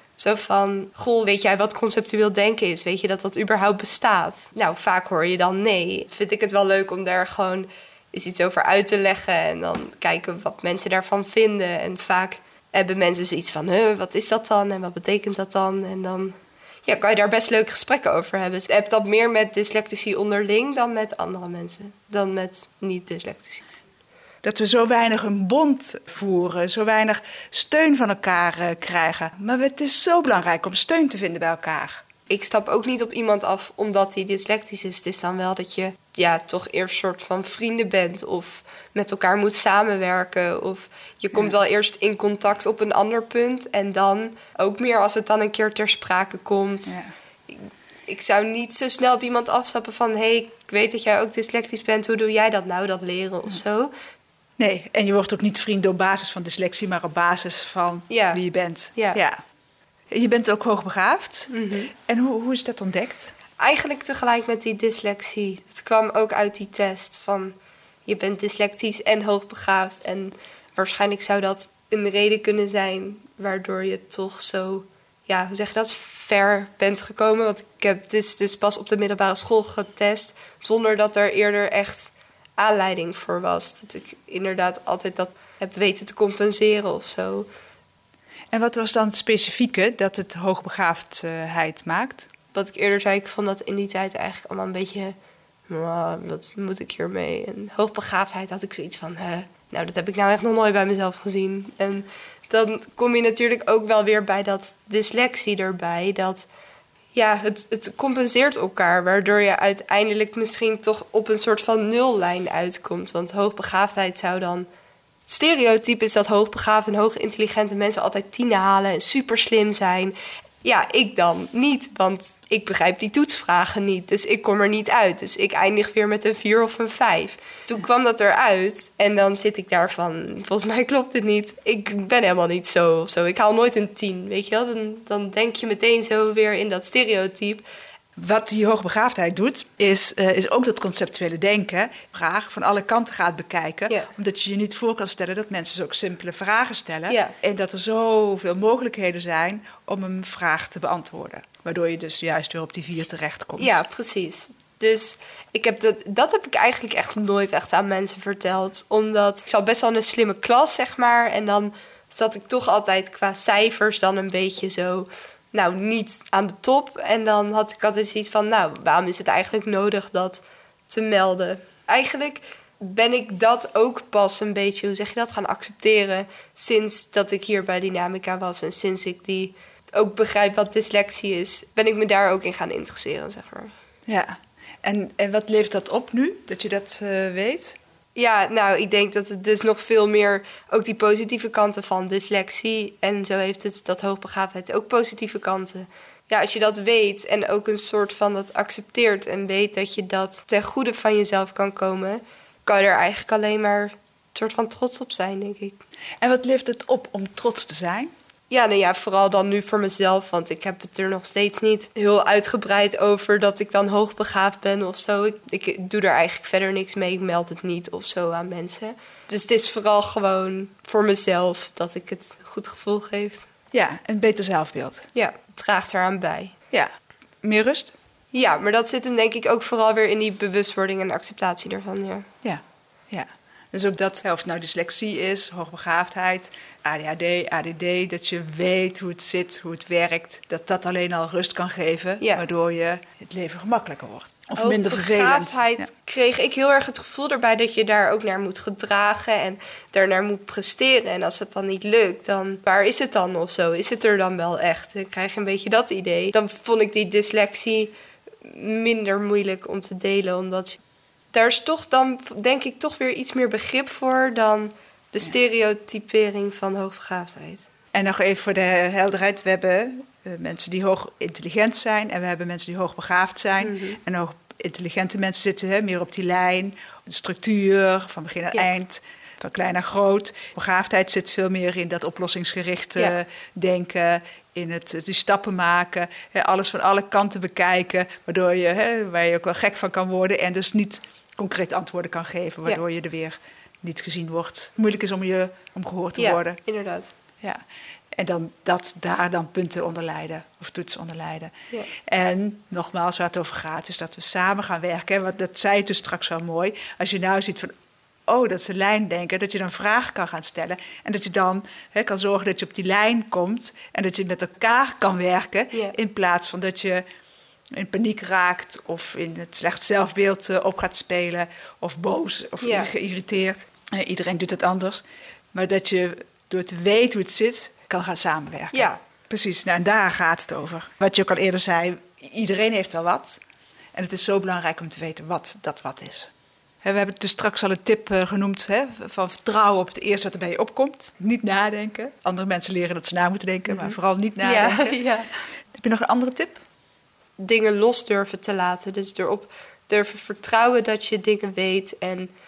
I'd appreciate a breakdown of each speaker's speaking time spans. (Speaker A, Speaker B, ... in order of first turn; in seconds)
Speaker A: 0.2-23.6, 32.3-47.0, 47.5-53.9, 58.1-58.4, 58.9-59.2, 61.5-61.9, 63.6-67.5, 68.0-87.5, 92.5-95.2, 95.7-106.5, 107.1-114.7, 115.3-137.6, 147.1-147.3, 153.6-183.7, 188.2-205.8, 208.5-223.5, 225.1-226.5, 228.3-232.3, 244.6-257.9, 258.4-260.8, 261.3-267.7, 273.6-274.0, 296.2-297.1, 322.6-322.9, 328.7-329.0, 343.7-345.3, 347.4-352.3
Speaker B: 24.4-32.0, 46.9-47.1, 54.6-59.4, 60.1-63.3, 88.5-92.3, 138.2-153.8, 184.1-187.8, 206.2-208.1, 223.7-225.1, 227.4-227.9, 232.4-245.9, 267.9-296.6, 298.1-307.7, 308.3-317.0, 317.7-333.4, 333.9-336.3, 336.8-345.0, 345.7-346.6